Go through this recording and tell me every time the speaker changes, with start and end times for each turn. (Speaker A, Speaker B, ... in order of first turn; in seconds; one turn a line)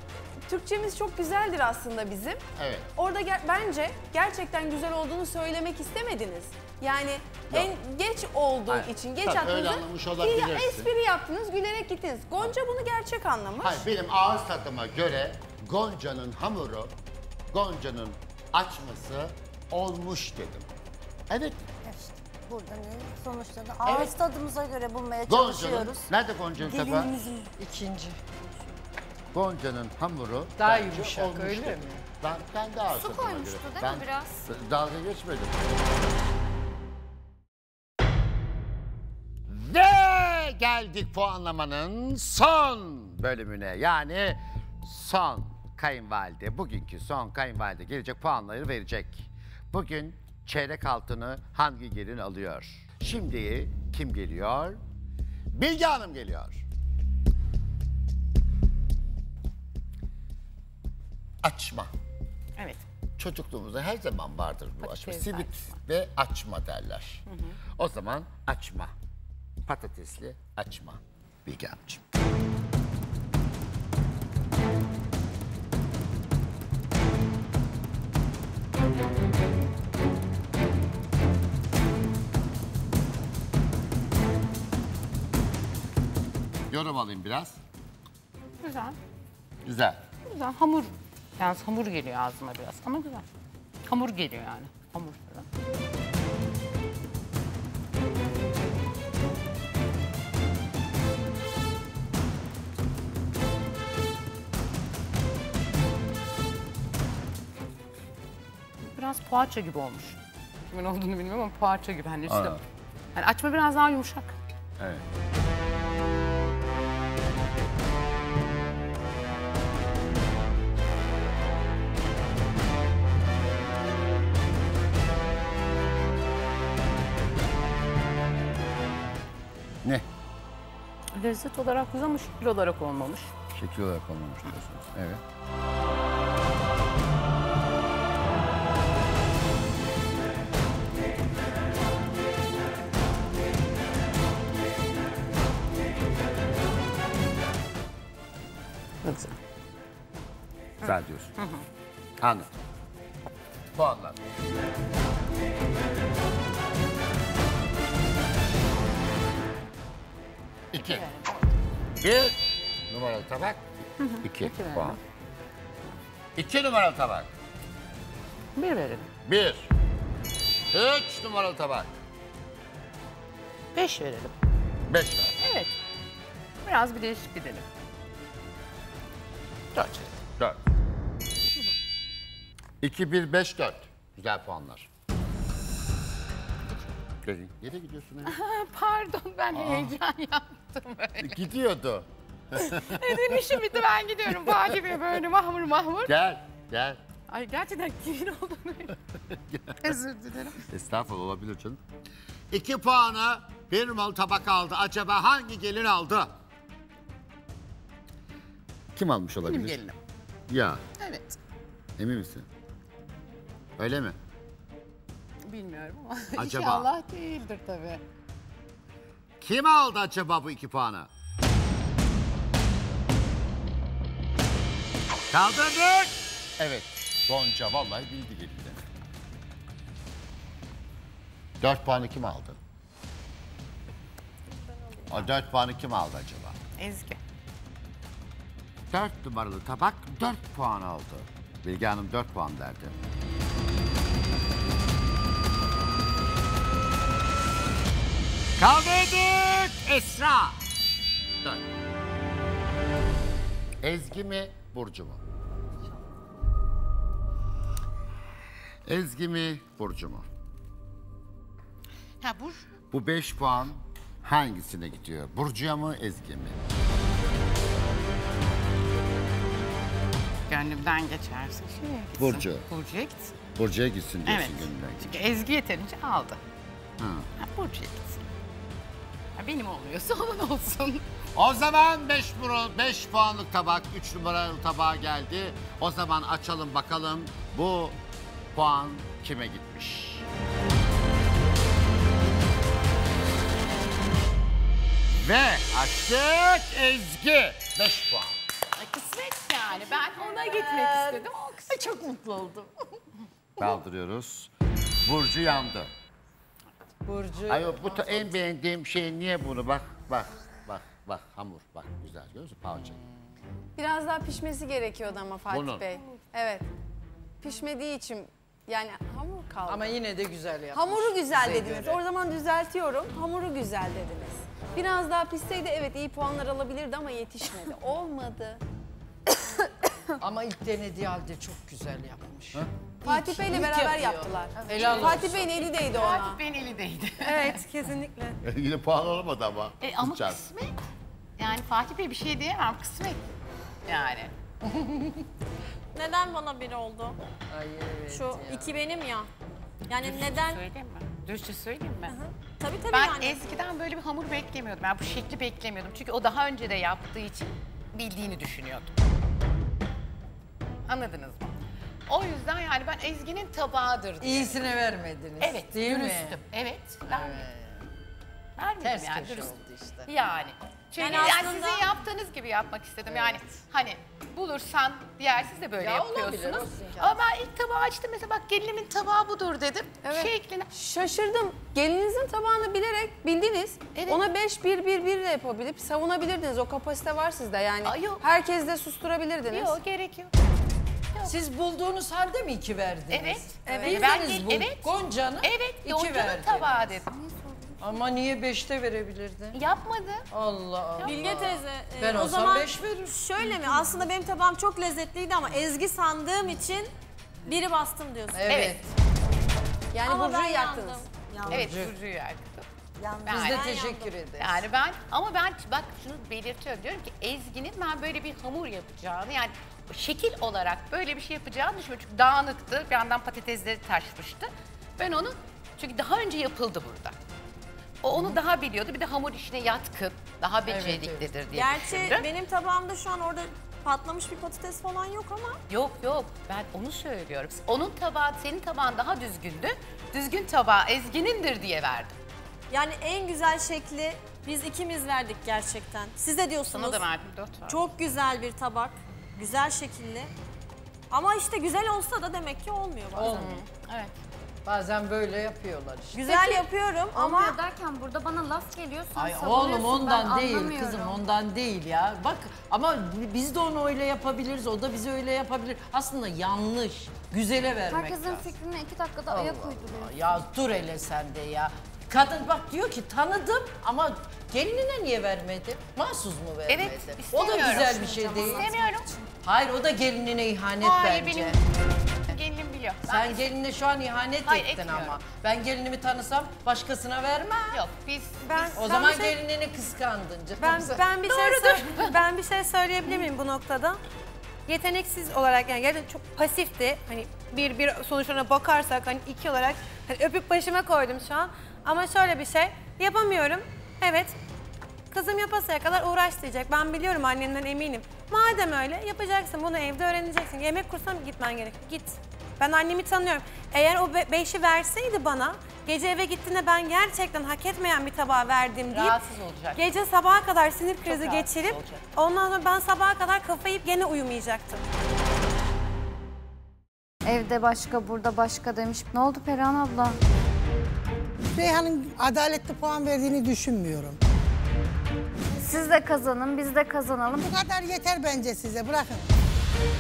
Speaker A: 0.5-2.4
Speaker B: 2.6-2.9
Speaker A: 3.0-13.8
Speaker B: 8.7-10.9
Speaker B: 13.6-16.9
Speaker B: 17.5-20.7
Speaker B: 21.3-21.6
Speaker C: 21.8-26.1
Speaker D: 23.9-24.1
Speaker B: 25.3-27.1
Speaker C: 26.6-27.5
Speaker D: 27.6-28.2
Speaker B: 29.3-35.7
Speaker D: 30.6-32.0
Speaker E: 32.9-34.4
Speaker B: 39.5-54.8
Speaker B: 55.5-56.6
Speaker B: 61.4-61.9
Speaker F: 62.6-62.8
Speaker B: 63.2-67.2
Speaker F: 64.8-65.8
Speaker F: 67.3-67.6
Speaker B: 67.8-68.9
Speaker B: 69.7-72.0
Speaker B: 86.7-87.6
Speaker F: 88.6-89.0
Speaker B: 89.7-90.0
Speaker F: 90.2-93.2
Speaker F: 93.9-95.5
Speaker F: 108.8-112.6
Speaker B: 112.3-112.6
Speaker F: 113.2-114.3
Speaker F: 131.1-133.3
Speaker B: 133.5-135.2
Speaker F: 149.0-149.4
Speaker F: 150.8-151.7
Speaker B: 150.8-151.3
Speaker B: 152.2-152.5
Speaker B: 153.8-154.2
Speaker B: 160.7-161.1
Speaker F: 160.8-161.4
Speaker B: 162.0-165.0
Speaker F: 164.0-165.0
Speaker B: 166.4-167.3
Speaker F: 168.6-169.1
Speaker B: 169.2-169.7
Speaker B: 170.7-171.9
Speaker F: 173.7-174.3
Speaker B: 174.9-175.3
Speaker F: 175.4-175.8
Speaker F: 176.6-177.7
Speaker F: 179.7-180.2
Speaker B: 182.8-184.9
Speaker B: 187.2-188.4
Speaker F: 188.2-191.4
Speaker B: 189.6-189.9
Speaker B: 191.2-193.1
Speaker F: 192.6-196.1
Speaker B: 196.1-197.0
Speaker F: 197.3-198.9
Speaker B: 199.3-199.8
Speaker F: 199.8-200.6
Speaker B: 200.7-201.8
Speaker B: 202.5-206.3
Speaker B: 208.9-209.8
Speaker F: 209.5-210.0
Speaker B: 210.5-210.8
Speaker F: 211.0-211.4
Speaker B: 212.0-212.5
Speaker B: 213.8-214.2
Speaker F: 215.4-218.0
Speaker B: 216.4-216.9
Speaker B: 219.4-221.1
Speaker B: 225.3-228.8
Speaker B: 231.6-232.6
Speaker G: 234.8-235.0
Speaker B: 235.1-236.6
Speaker F: 236.8-237.2
Speaker B: 238.9-242.9
Speaker B: 248.6-250.6
Speaker B: 253.8-255.2
Speaker B: 258.9-260.3
Speaker F: 262.2-262.7
Speaker B: 262.9-266.6
Speaker F: 270.5-273.4
Speaker B: 272.2-272.7
Speaker B: 273.6-275.2
Speaker F: 274.3-276.4
Speaker B: 277.0-277.3
Speaker F: 277.4-278.3
Speaker F: 279.4-281.1
Speaker B: 281.4-288.0
Speaker B: 288.5-290.3
Speaker B: 295.1-298.4
Speaker F: 298.8-301.8
Speaker D: 300.1-302.7
Speaker B: 303.6-304.5
Speaker B: 305.1-305.9
Speaker D: 307.1-308.2
Speaker B: 307.5-313.0
Speaker A: 313.8-316.7
Speaker B: 315.5-315.9
Speaker A: 317.4-320.0
Speaker D: 319.7-322.0
Speaker A: 320.7-328.6
Speaker D: 330.2-335.6
Speaker A: 333.0-336.4
Speaker F: 334.6-337.6
Speaker H: 337.2-338.4
Speaker B: 338.4-340.4
Speaker F: 339.8-340.8
Speaker F: 341.4-343.2
Speaker F: 343.9-344.3
Speaker D: 344.7-345.2
Speaker G: 345.9-347.2
Speaker D: 347.5-348.8
Speaker G: 348.1-349.3
Speaker G: 349.9-350.6
Speaker F: 350.0-352.2
Speaker G: 352.1-353.4
Speaker F: 352.9-359.0
Speaker F: 360.9-364.6
Speaker D: 364.2-366.4
Speaker F: 365.4-367.5
Speaker D: 367.1-367.8
Speaker F: 368.6-380.7
Speaker D: 368.8-370.1
Speaker G: 371.0-371.9
Speaker D: 375.8-377.2
Speaker A: 380.0-389.8
Speaker F: 383.9-384.2
Speaker F: 387.8-388.2
Speaker F: 389.5-390.3
Speaker D: 391.2-396.9
Speaker F: 393.1-394.9
Speaker G: 393.7-394.0
Speaker A: 393.7-394.3
Speaker F: 395.4-397.5
Speaker D: 397.8-399.6
Speaker F: 399.5-400.3
Speaker D: 400.3-404.0
Speaker G: 401.0-406.9
Speaker G: 407.4-408.6
Speaker D: 408.3-408.9
Speaker F: 408.5-408.8
Speaker A: 409.9-411.1
Speaker G: 410.0-411.1
Speaker C: 411.3-411.8
Speaker D: 411.5-411.9
Speaker F: 411.5-412.7
Speaker C: 413.0-413.5
Speaker F: 413.2-413.7
Speaker D: 413.3-414.6
Speaker G: 413.5-414.1
Speaker F: 414.4-427.2
Speaker F: 428.0-432.3
Speaker D: 430.7-431.4
Speaker G: 431.5-435.6
Speaker F: 435.7-442.2
Speaker G: 442.7-447.0
Speaker F: 446.7-447.8
Speaker G: 447.7-450.3
Speaker G: 451.1-453.5
Speaker D: 453.1-453.6
Speaker F: 453.2-454.1
Speaker D: 454.7-456.2
Speaker G: 456.1-457.4
Speaker A: 456.3-456.6
Speaker E: 457.1-461.3
Speaker D: 459.1-468.5
Speaker E: 467.9-470.1
Speaker D: 469.3-478.7
Speaker F: 476.7-479.1
Speaker E: 477.3-479.3
Speaker D: 479.4-481.6
Speaker F: 480.8-481.6
Speaker F: 482.3-483.5
Speaker D: 483.1-487.8
Speaker F: 484.4-485.2
Speaker F: 487.7-488.8
Speaker A: 488.5-489.4
Speaker D: 488.8-491.1
Speaker H: 490.6-494.0
Speaker F: 491.2-492.1
Speaker H: 494.7-504.4
Speaker H: 505.1-519.2
Speaker F: 518.9-519.8
Speaker H: 519.8-524.8
Speaker F: 521.1-522.0
Speaker E: 527.2-530.2
Speaker I: 531.5-534.2
Speaker E: 535.5-537.5
Speaker I: 537.4-539.3